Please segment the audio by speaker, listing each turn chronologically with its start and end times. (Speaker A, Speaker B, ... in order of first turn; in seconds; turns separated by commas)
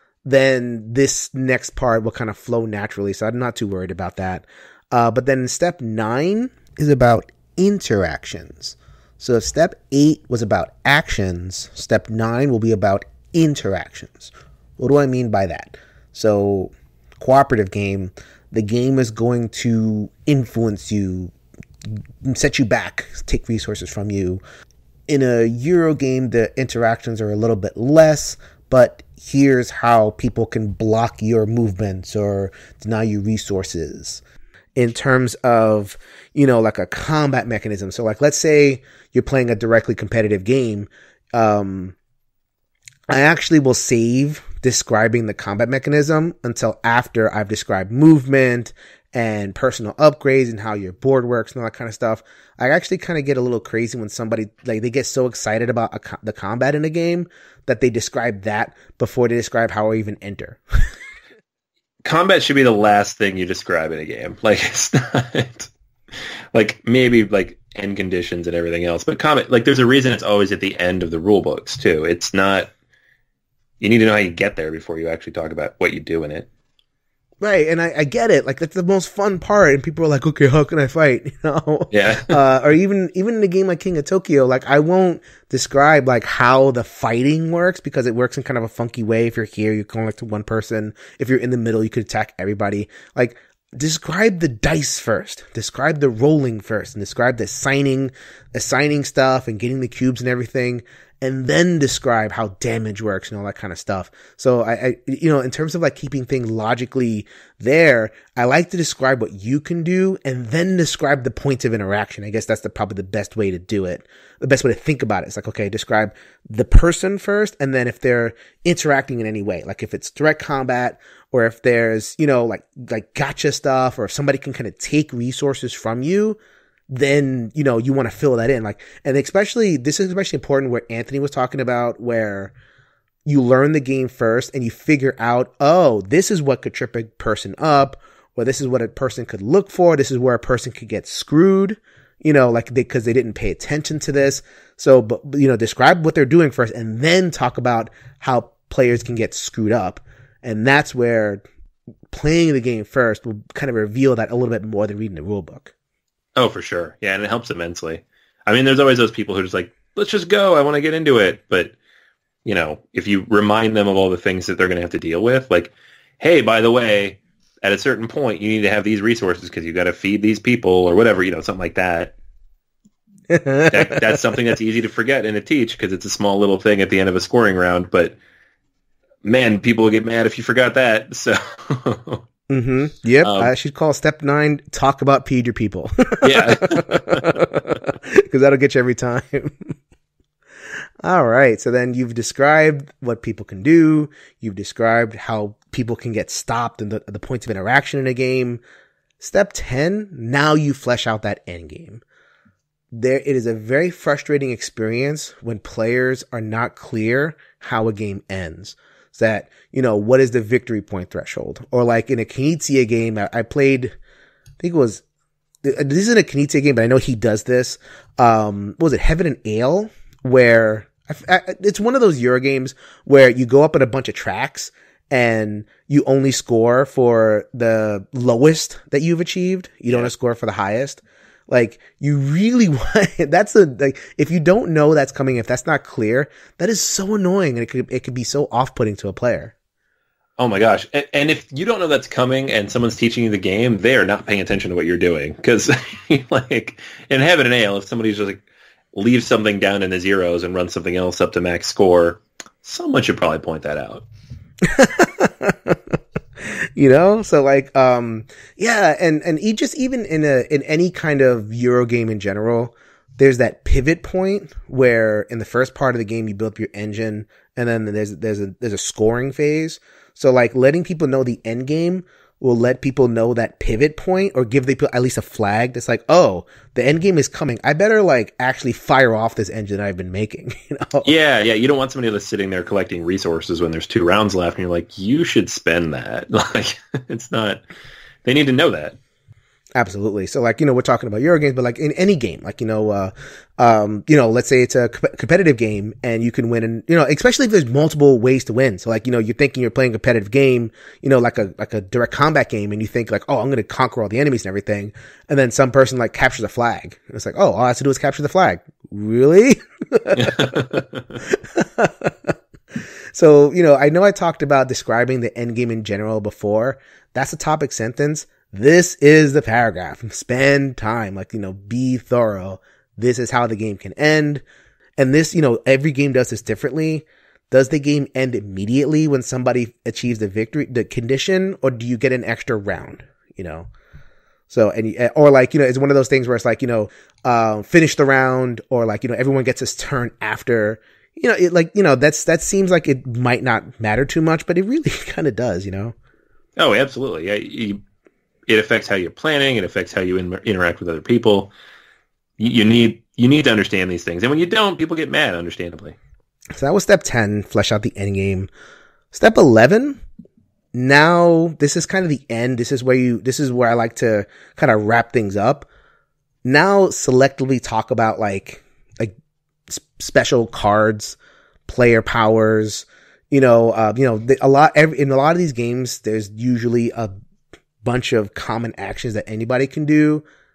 Speaker A: 0.2-21.3, Speaker A: 21.9-24.4, Speaker A: 25.1-34.2, Speaker A: 34.8-42.0, Speaker A: 43.1-60.9, Speaker B: 62.0-72.7, Speaker B: 73.8-76.5, Speaker A: 77.4-126.4, Speaker B: 81.9-82.3, Speaker A: 126.9-132.5, Speaker A: 133.2-151.4, Speaker A: 152.1-155.7, Speaker B: 156.4-161.7, Speaker B: 162.4-172.1, Speaker A: 173.3-174.0, Speaker B: 173.7-178.2, Speaker B: 179.2-182.2, Speaker A: 182.5-189.7, Speaker B: 183.2-183.5, Speaker B: 186.2-187.4, Speaker A: 191.0-198.6, Speaker A: 199.2-202.0, Speaker A: 202.9-213.9, Speaker A: 214.6-215.0, Speaker A: 215.6-239.5, Speaker B: 240.4-248.4, Speaker B: 248.9-254.1, Speaker A: 254.6-281.1, Speaker B: 281.0-287.6, Speaker B: 288.2-289.0, Speaker A: 289.8-324.4, Speaker B: 310.1-311.2, Speaker A: 325.0-333.7, Speaker A: 334.5-345.9, Speaker B: 346.6-347.8, Speaker B: 348.5-351.5, Speaker B: 352.4-356.0, Speaker A: 356.6-358.5, Speaker A: 359.1-360.0, Speaker A: 360.7-365.7, Speaker A: 366.4-369.1, Speaker A: 369.7-377.1, Speaker A: 377.8-380.2